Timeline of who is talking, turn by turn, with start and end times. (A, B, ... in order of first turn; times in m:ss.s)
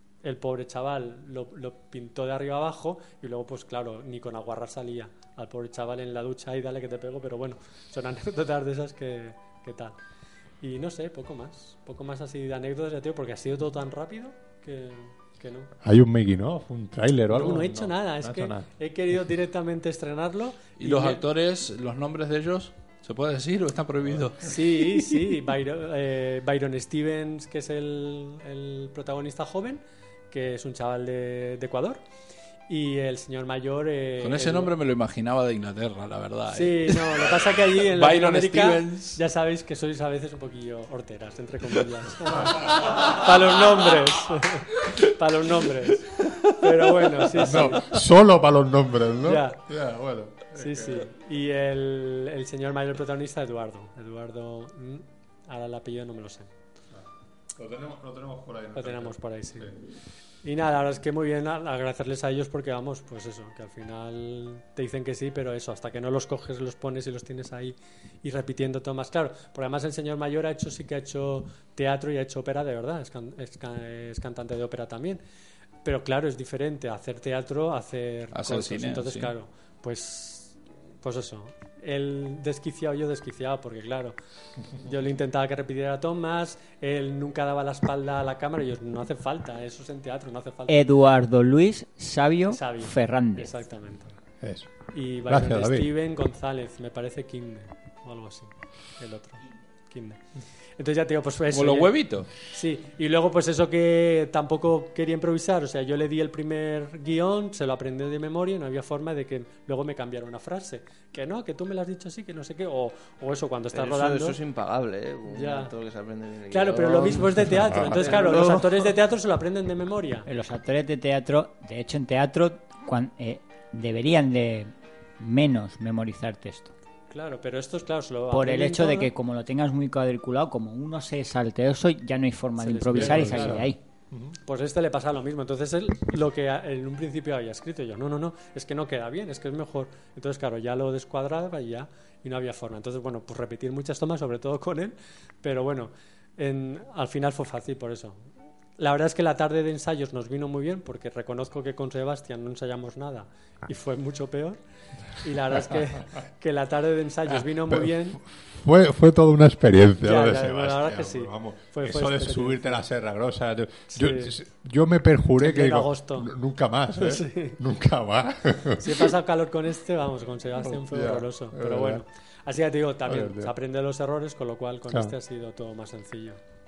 0:00.2-0:10.0 A
0:10.6-0:15.7 A
0:15.8-0:18.7 B
0:17.3-0:21.2 A
0:20.8-0:25.2 C
0:24.4-0:32.0 A
0:32.7-0:34.7 A
0:34.2-0:39.2 C
0:36.5-0:48.0 A
0:47.3-0:51.1 B
0:49.2-0:49.6 A
0:50.5-0:56.5 A
0:57.6-0:59.8 B
0:58.8-0:59.7 A
1:00.4-1:15.2 A
1:15.8-1:24.2 A
1:18.3-1:19.3 C
1:24.8-1:30.8 A
1:30.7-1:33.5 D
1:32.5-1:34.1 A
1:34.4-1:35.9 B
1:34.9-1:40.2 A
1:40.8-1:54.4 A
1:41.5-1:42.4 C
1:53.7-1:58.9 E
1:55.3-1:55.7 A
1:56.5-2:00.3 A
1:57.6-1:58.0 B
2:00.2-2:06.7 D
2:07.1-2:09.1 A
2:08.3-2:13.8 D
2:12.6-2:13.6 A
2:12.9-2:14.4 B
2:14.4-2:34.6 A
2:35.2-2:38.2 A
2:37.7-2:49.1 B
2:40.0-2:42.8 A
2:43.9-2:44.3 A
2:45.4-2:46.3 A
2:47.0-2:47.6 A
2:48.8-2:56.4 A
2:50.6-2:52.0 B
2:53.0-2:53.5 B